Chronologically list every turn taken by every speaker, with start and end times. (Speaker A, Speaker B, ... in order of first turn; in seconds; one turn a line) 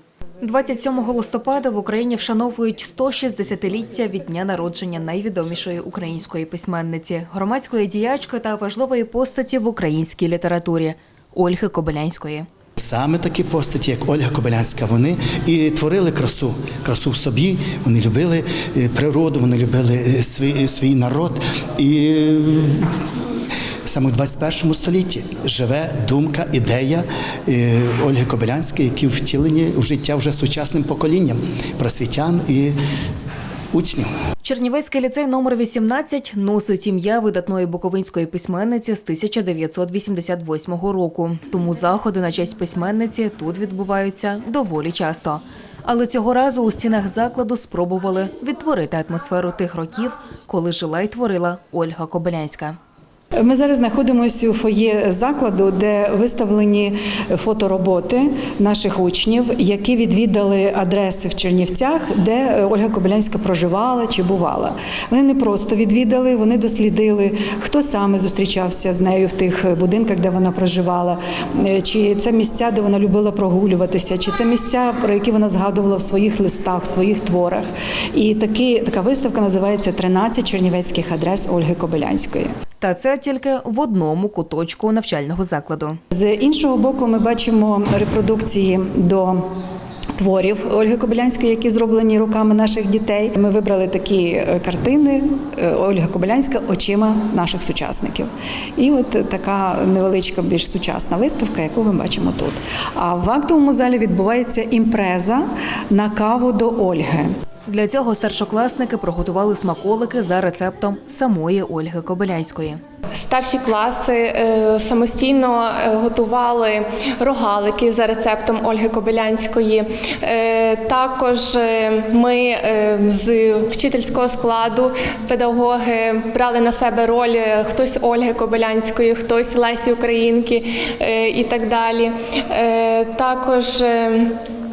Speaker A: 0.4-12.4
Speaker B: 12.8-22.9
Speaker B: 23.9-32.8
Speaker B: 33.7-34.1
Speaker A: 34.4-52.8
Speaker C: 53.4-82.5
Speaker A: 82.8-86.0
Speaker C: 86.1-89.4
Speaker C: 90.2-107.3
Speaker A: 107.7-112.8
Speaker D: 113.2-134.3